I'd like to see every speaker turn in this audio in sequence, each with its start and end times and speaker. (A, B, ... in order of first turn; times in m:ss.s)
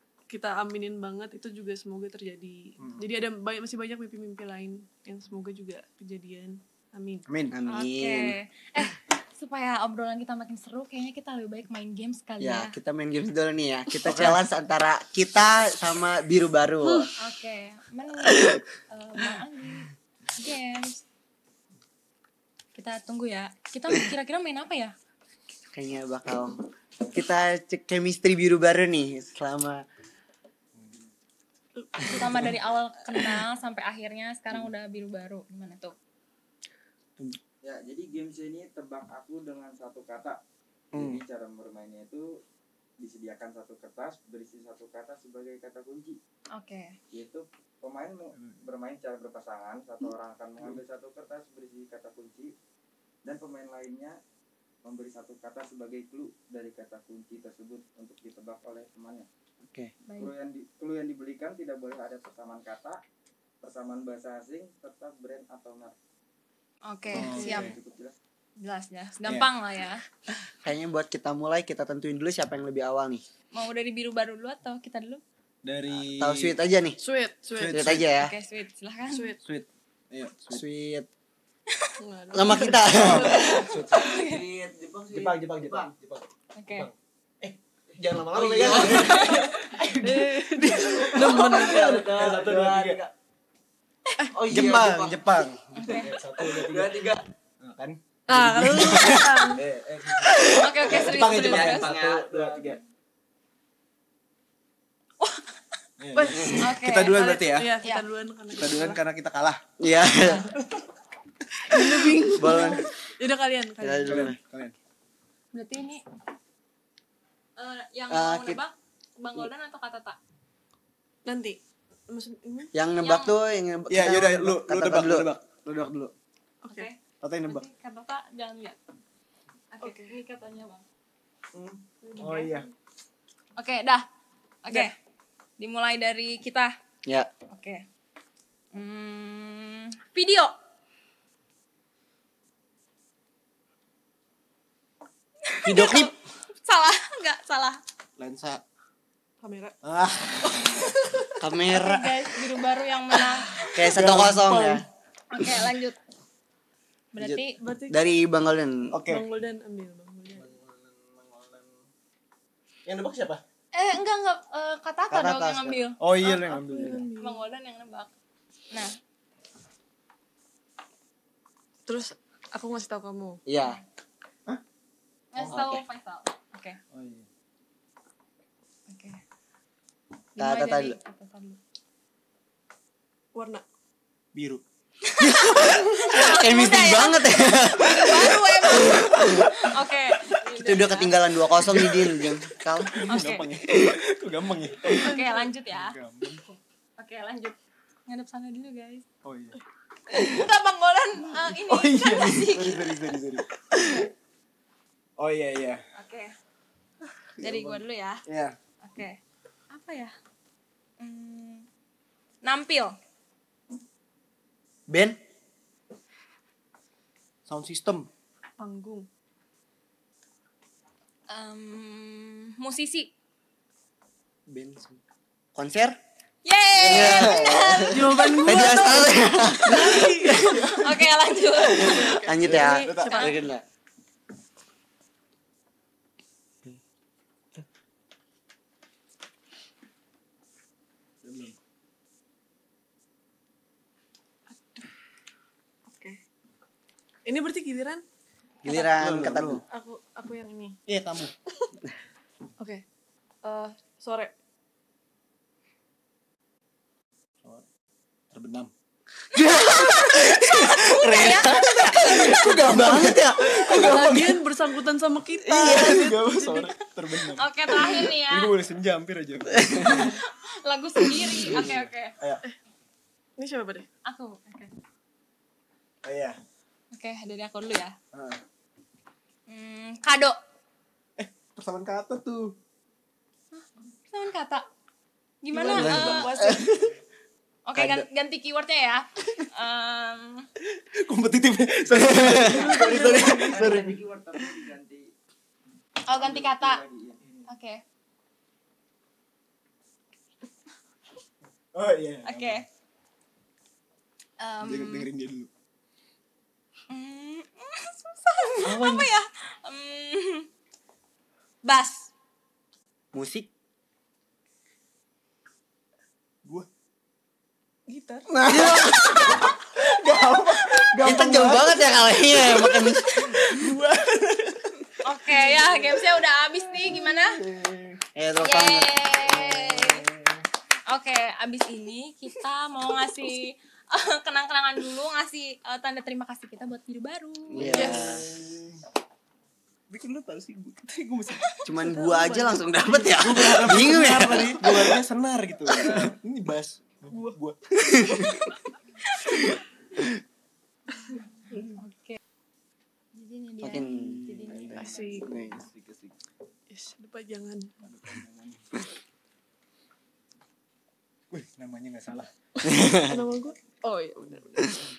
0:00.3-0:07.2 A
0:02.8-0:03.1 B
0:07.3-0:07.6 B
0:07.5-0:08.4 C
0:07.7-0:12.8 D
0:12.4-0:17.1 C
0:14.0-0:14.4 B
0:16.8-0:17.1 A
0:17.2-0:21.0 D
0:22.8-0:24.9 D
0:25.7-0:29.8 C
0:31.8-0:32.5 A
0:32.1-0:35.9 D
0:37.6-0:40.4 E
0:40.9-0:41.2 B
0:40.9-0:42.4 E
0:43.0-0:46.2 E
0:46.5-0:47.0 D
0:47.1-0:52.5 E
0:53.2-0:54.2 E
0:54.8-0:59.3 E
1:00.1-1:00.3 D
1:00.1-1:03.0 E
1:03.6-1:05.9 E
1:06.9-1:07.7 D
1:07.1-1:07.7 B
1:07.2-1:07.7 A
1:07.2-1:08.1 E
1:08.6-1:10.0 D
1:10.6-1:13.2 C
1:13.5-1:15.2 D
1:15.6-1:16.5 B
1:16.0-1:17.0 C
1:17.0-1:18.0 A
1:17.6-1:18.1 B
1:17.7-1:18.3 C
1:18.1-1:19.3 D
1:19.1-1:19.4 A
1:19.4-1:20.6 B
1:20.5-1:21.1 C
1:22.0-1:23.7 A
1:22.3-1:25.9 C
1:22.8-1:24.3 B
1:23.3-1:24.4 D
1:25.1-1:33.0 B
1:26.5-1:26.9 D
1:28.3-1:29.5 C
1:28.8-1:29.4 D
1:30.0-1:32.0 A
1:31.0-1:33.1 C
1:34.3-1:35.2 C
1:34.5-1:42.8 B
1:35.7-1:36.1 D
1:36.0-1:37.3 C
1:38.3-1:39.6 A
1:38.9-1:39.2 C
1:40.2-1:42.8 C
1:40.4-1:41.9 D
1:45.2-1:45.4 D
1:46.0-1:47.7 B
1:46.1-1:49.0 A
1:46.6-1:47.2 D
1:48.5-1:49.6 B
1:49.8-1:50.5 C
1:50.2-1:50.5 D
1:51.7-1:54.3 A
1:52.3-1:52.9 C
1:53.8-1:54.4 C
1:54.1-1:54.8 B
1:55.5-1:56.0 D
1:57.6-2:00.2 D
1:58.1-1:58.6 C
2:01.2-2:02.7 A
2:02.7-2:05.3 C
2:03.0-2:03.4 D
2:03.9-2:06.1 B
2:06.6-2:06.9 A
2:06.7-2:08.8 D
2:07.2-2:07.6 B
2:09.7-2:10.8 D
2:09.8-2:10.1 A
2:11.5-2:12.7 B
2:12.0-2:12.7 A
2:13.6-2:14.1 D
2:14.6-2:14.9 D
2:15.6-2:16.7 D
2:17.5-2:17.8 D
2:18.7-2:20.5 D
2:25.4-2:26.1 D
2:25.6-2:26.1 C
2:26.6-2:27.8 D
2:28.2-2:28.6 B
2:29.4-2:29.7 A
2:29.8-2:31.0 B
2:31.4-2:32.2 C
2:31.7-2:33.9 D
2:33.7-2:34.8 C
2:33.9-2:34.8 B
2:34.1-2:34.7 A
2:35.3-2:36.0 D
2:37.1-2:37.6 D
2:37.2-2:39.0 C
2:37.6-2:38.0 A
2:38.9-2:39.2 B
2:39.0-2:40.5 A
2:40.4-2:41.7 B
2:42.8-2:43.4 B
2:43.7-2:46.0 D
2:45.1-2:45.8 C
2:46.0-2:47.0 B
2:46.2-2:47.4 A
2:46.8-2:48.1 D
2:48.7-2:49.0 D
2:51.8-2:53.4 A
2:53.4-2:53.8 C
2:55.3-2:56.8 D
2:55.4-2:55.8 C
2:56.9-2:57.2 B
2:58.9-2:59.2 D
3:00.4-3:01.6 D
3:00.4-3:01.0 C
3:03.3-3:03.6 A
3:04.3-3:04.6 B
3:05.0-3:11.1 D
3:05.2-3:09.6 C
3:08.0-3:09.0 A
3:10.5-3:13.0 C
3:11.6-3:12.1 B
3:12.9-3:15.0 B
3:13.1-3:13.4 D
3:14.9-3:15.5 A
3:15.0-3:19.0 D
3:15.7-3:16.4 B
3:19.2-3:19.6 B
3:20.1-3:22.9 D
3:21.7-3:24.0 B
3:25.2-3:25.8 B
3:25.9-3:26.3 D
3:27.4-3:28.2 D
3:27.4-3:28.6 B
3:28.8-3:29.2 D
3:29.7-3:30.1 D
3:31.0-3:31.6 D
3:32.4-3:32.9 D
3:34.9-3:35.2 C
3:37.5-3:38.1 B
3:38.6-3:39.1 A
3:41.3-3:43.1 D
3:44.5-3:45.0 C
3:45.5-3:46.0 C
3:46.4-3:48.8 D
3:46.8-3:50.6 C
3:46.9-3:47.6 B
3:47.9-3:50.8 A
3:50.5-3:52.3 D
3:51.7-3:53.4 A
3:51.8-3:53.6 C
3:52.4-3:53.3 B
3:53.0-3:53.3 D
4:01.2-4:01.6 B
4:04.5-4:04.9 A
4:05.9-4:06.2 A
4:07.2-4:08.0 A
4:08.6-4:09.6 C
4:08.6-4:08.9 A
4:09.0-4:09.6 B
4:09.7-4:10.8 A
4:10.9-4:11.3 B
4:13.4-4:14.3 A
4:18.3-4:18.7 B
4:19.3-4:23.7 C
4:19.9-4:24.4 B
4:20.3-4:22.5 D
4:23.6-4:26.7 A
4:25.4-4:30.1 B
4:27.3-4:28.5 D
4:29.6-4:30.0 C
4:29.8-4:32.1 D
4:29.8-4:30.2 A
4:31.2-4:32.4 B
4:33.4-4:33.9 A
4:34.0-4:34.7 D
4:36.0-4:36.4 B
4:36.9-4:38.0 D
4:38.1-4:38.4 B
4:39.5-4:40.4 D
4:41.2-4:42.6 B
4:43.5-4:44.6 D
4:45.4-4:46.3 D
4:45.5-4:46.7 A
4:45.6-4:46.8 C
4:47.7-4:50.4 D
4:47.7-4:48.0 C
4:50.8-4:54.6 B
4:51.9-4:52.6 C
4:52.4-4:53.7 A
4:52.6-4:55.1 E
4:56.0-4:56.8 D
4:56.2-4:57.4 E
4:57.5-4:57.8 D
5:01.7-5:02.6 B
5:02.2-5:02.6 D
5:04.4-5:05.1 D
5:04.6-5:05.5 B
5:06.9-5:10.5 D
5:08.6-5:09.1 B
5:11.6-5:12.1 D
5:13.1-5:13.5 C
5:17.9-5:18.3 A
5:18.3-5:24.8 B
5:18.5-5:19.4 C
5:21.0-5:23.1 C
5:23.1-5:23.4 D
5:25.0-5:27.4 D
5:26.8-5:28.0 B
5:28.1-5:29.8 C
5:28.4-5:30.0 D
5:29.4-5:30.4 B
5:30.9-5:37.9 D
5:37.5-5:38.3 C
5:37.6-5:38.8 B
5:37.7-5:38.2 A
5:39.9-5:41.6 B
5:41.6-5:45.0 C
5:41.8-5:43.2 A
5:43.1-5:48.3 B
5:45.7-5:46.1 C
5:47.1-5:47.4 A
5:47.8-5:48.4 C
5:51.8-5:52.2 D
5:53.1-5:55.3 D
5:53.6-5:54.2 C
5:53.9-5:56.1 B
5:54.7-5:55.5 A
5:56.7-5:57.7 A
5:57.8-5:58.6 B
6:01.3-6:02.3 B
6:02.6-6:03.2 C
6:02.8-6:04.7 A